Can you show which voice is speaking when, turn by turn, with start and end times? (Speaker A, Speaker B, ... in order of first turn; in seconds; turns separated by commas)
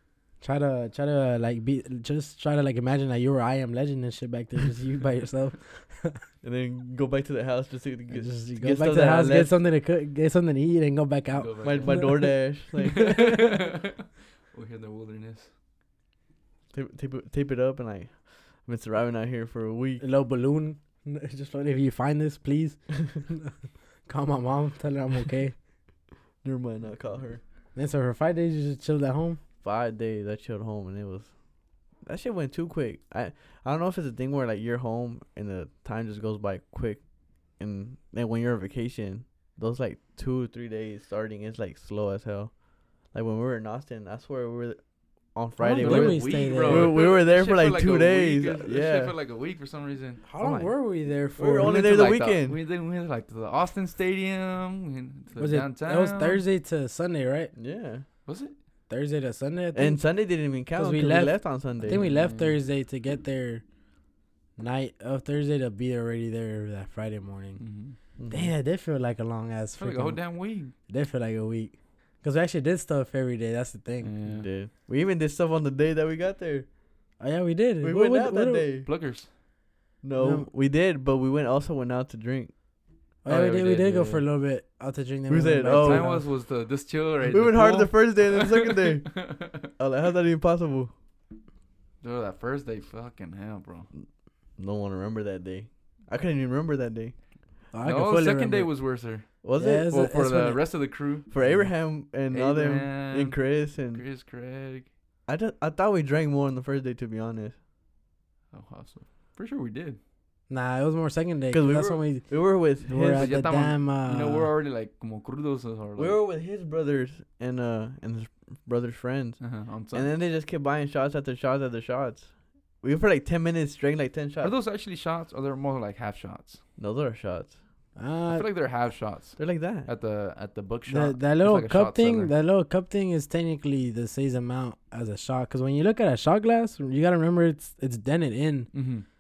Speaker A: 0.4-6.2, Speaker B: 6.4-9.6, Speaker A: 8.1-13.5, Speaker C: 11.3-15.5, Speaker B: 11.6-13.3, Speaker B: 16.7-20.0, Speaker A: 20.0-23.4, Speaker A: 24.1-25.6, Speaker B: 26.4-27.4, Speaker A: 27.7-29.4, Speaker B: 29.6-31.3, Speaker B: 32.0-37.0, Speaker B: 37.6-49.1, Speaker A: 45.6-47.0, Speaker C: 45.8-50.2, Speaker A: 50.2-51.8, Speaker B: 50.4-50.7, Speaker B: 51.4-52.6, Speaker C: 51.6-56.4, Speaker A: 55.4-57.5, Speaker B: 57.5-58.1, Speaker C: 58.2-58.5, Speaker A: 58.9-60.0, Speaker B: 59.7-62.1, Speaker A: 60.7-63.6, Speaker C: 61.9-62.6, Speaker A: 64.6-67.6, Speaker C: 67.6-68.0, Speaker B: 68.2-68.5, Speaker A: 68.3-74.1, Speaker C: 69.8-70.7, Speaker C: 74.0-74.5, Speaker B: 74.2-76.7, Speaker A: 77.2-78.7, Speaker B: 77.8-78.9, Speaker C: 78.8-79.3, Speaker B: 80.0-82.5, Speaker A: 80.2-80.5, Speaker A: 83.2-86.2, Speaker C: 83.3-84.2, Speaker B: 85.3-86.2, Speaker C: 85.7-89.7, Speaker B: 87.2-90.9, Speaker C: 92.0-93.9, Speaker B: 93.9-97.2, Speaker A: 97.7-98.7, Speaker C: 97.8-104.9, Speaker B: 99.4-99.9, Speaker A: 99.6-100.6, Speaker B: 101.3-104.0, Speaker B: 105.3-107.6, Speaker C: 108.5-110.0, Speaker A: 110.5-114.5, Speaker B: 111.5-113.3, Speaker C: 113.1-116.2, Speaker B: 116.0-124.5, Speaker C: 119.4-120.1, Speaker C: 124.4-126.6, Speaker B: 126.8-127.6, Speaker A: 128.0-128.5, Speaker C: 128.3-132.3, Speaker B: 129.4-129.9, Speaker A: 130.9-138.7, Speaker C: 138.7-139.0